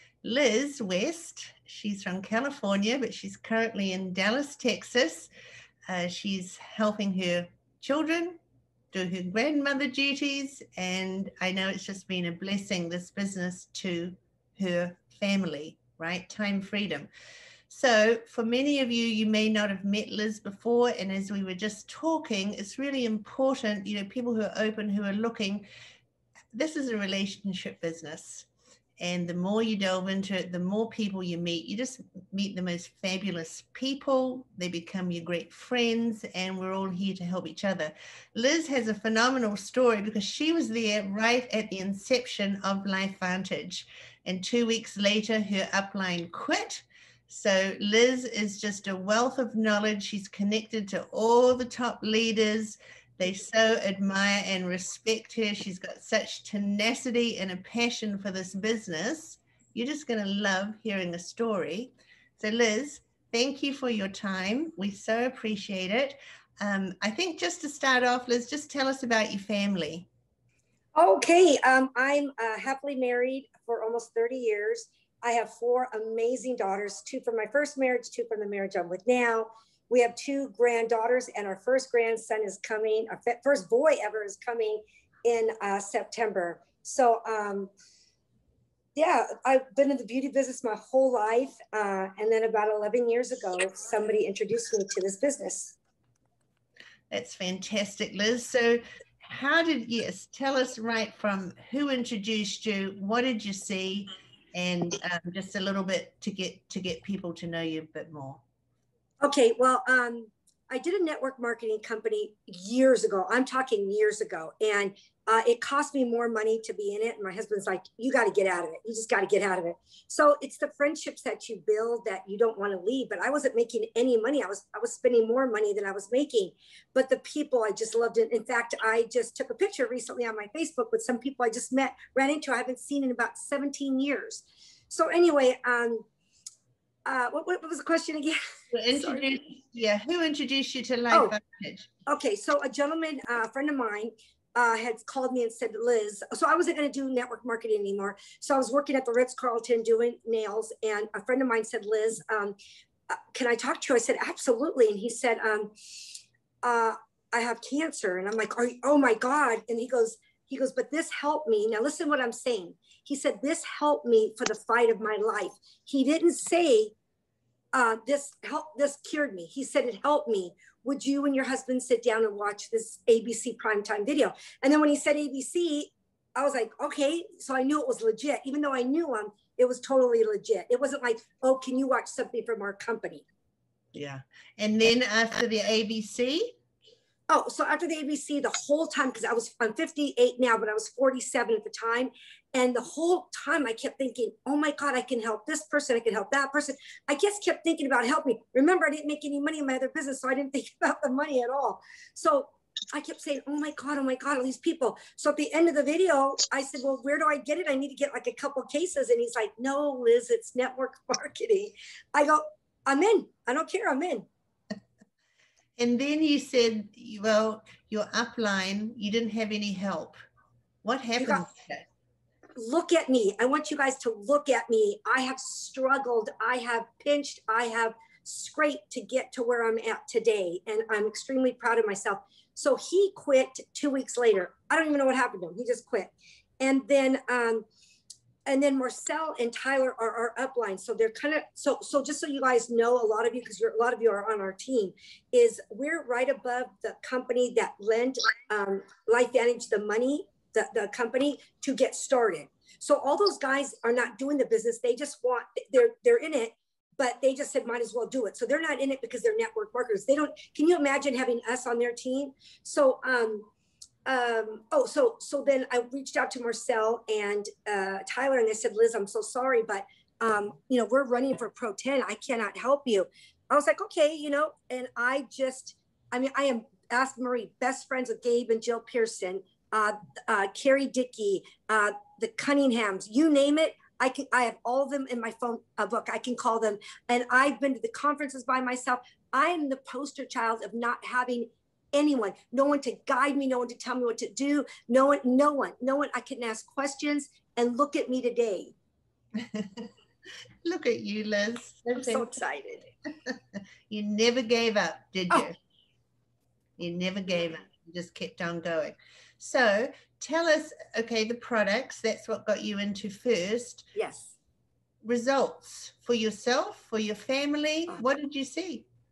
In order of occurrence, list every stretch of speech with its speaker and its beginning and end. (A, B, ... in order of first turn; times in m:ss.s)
0:00.2-0:05.3 A
0:05.9-0:08.4 A
0:08.9-0:17.1 A
0:17.7-0:25.7 A
0:26.5-0:28.5 A
0:29.0-1:10.1 A
1:11.0-1:27.7 B
1:29.0-1:35.8 B
1:37.1-1:48.4 A
1:49.2-2:16.1 B
2:17.1-2:18.4 B
2:18.7-2:21.9 A
2:18.9-2:19.3 B
2:22.1-2:32.6 B
2:33.1-2:35.7 B
2:36.6-2:46.9 B
2:47.7-3:03.2 B
3:03.9-3:06.6 A
3:07.3-3:34.3 B
3:35.8-3:40.2 A
3:40.8-3:41.9 A
3:42.6-3:57.7 B
3:58.5-4:23.5 B
4:24.1-4:58.7 B
4:59.4-4:59.9 A
5:00.6-5:02.3 A
5:02.0-5:02.9 B
5:03.9-5:05.6 A
5:06.8-5:13.9 A
5:14.0-5:14.3 B
5:15.0-5:18.9 A